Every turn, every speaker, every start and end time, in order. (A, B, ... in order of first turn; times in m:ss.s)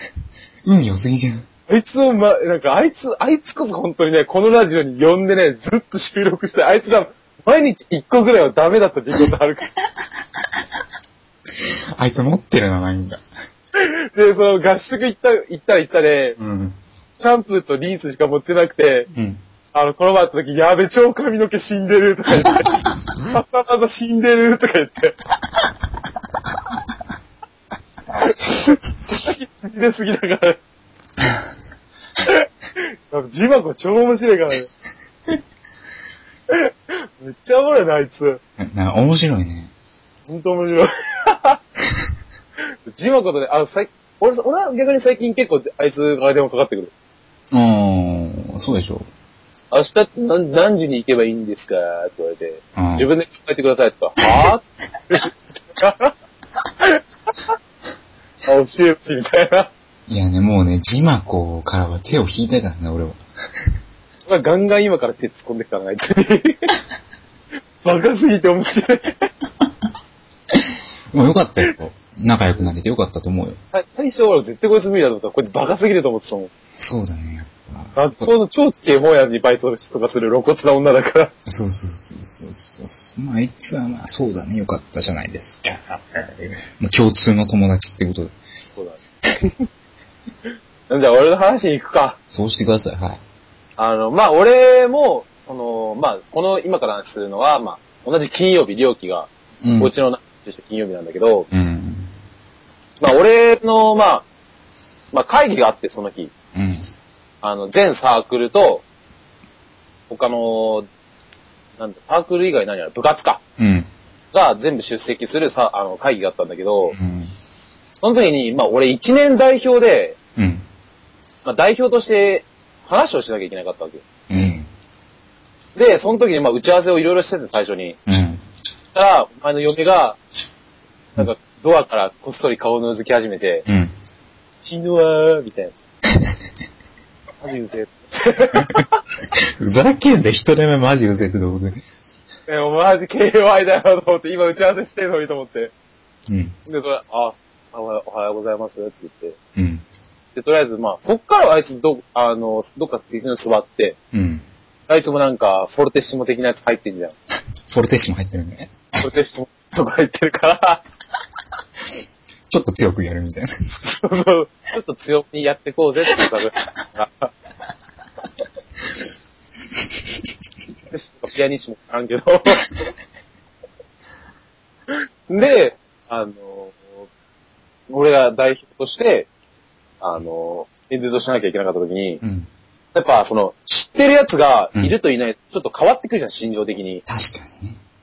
0:00.6-0:01.5 A
0:01.7-0:09.7 B
0:11.5-0:13.2 A
0:13.8-0:16.4 B
0:16.4-0:16.8 A
0:17.2-0:19.1 B
0:19.1-0:19.4 A
0:19.7-0:25.2 B
0:28.1-0:30.6 B
0:32.2-0:34.7 B
0:36.5-0:38.4 B
0:38.6-0:39.7 A
0:40.3-0:41.6 B
0:42.9-0:46.9 B
0:47.5-0:49.1 A
0:49.7-0:56.1 B
0:52.8-0:53.1 A
0:58.5-0:59.7 B
1:00.1-1:03.2 A
1:04.3-1:06.8 B
1:07.8-1:09.3 B
1:10.5-1:13.6 A
1:13.7-1:16.5 B
1:16.8-1:18.3 A
1:18.0-1:21.3 B
1:21.5-1:28.3 A
1:28.8-1:29.6 B
1:30.9-1:32.2 B
1:32.3-1:33.2 A
1:33.8-1:41.5 B
1:39.6-1:39.9 A
1:41.5-1:42.1 A
1:43.0-1:44.3 B
1:45.1-1:46.3 B
1:46.5-1:46.9 A
1:47.4-1:48.8 B
1:50.1-1:50.9 B
1:51.8-1:53.4 B
1:53.6-1:53.9 A
1:54.3-1:57.0 B
1:56.9-1:57.3 A
1:58.0-2:00.2 B
2:00.4-2:00.6 A
2:01.4-2:04.0 B
2:04.3-2:04.7 A
2:05.8-2:08.0 B
2:08.1-2:08.4 A
2:08.9-2:10.2 B
2:11.2-2:13.6 B
2:13.7-2:13.9 A
2:14.6-2:15.7 B
2:17.4-2:19.0 B
2:18.6-2:21.8 A
2:22.5-2:25.7 B
2:26.3-2:26.6 A
2:26.7-2:29.4 B
2:29.6-2:29.8 A
2:30.4-2:34.0 B
2:34.1-2:34.4 A
2:34.9-2:37.2 B
2:37.7-2:39.0 A
2:39.0-2:40.8 B
2:42.5-2:43.5 A
2:43.8-2:47.3 B
2:50.9-2:52.7 B
2:54.9-2:56.9 B
2:57.9-2:59.3 B
3:00.0-3:02.2 B
3:02.2-3:02.5 A
3:02.9-3:07.0 B
3:07.1-3:07.8 A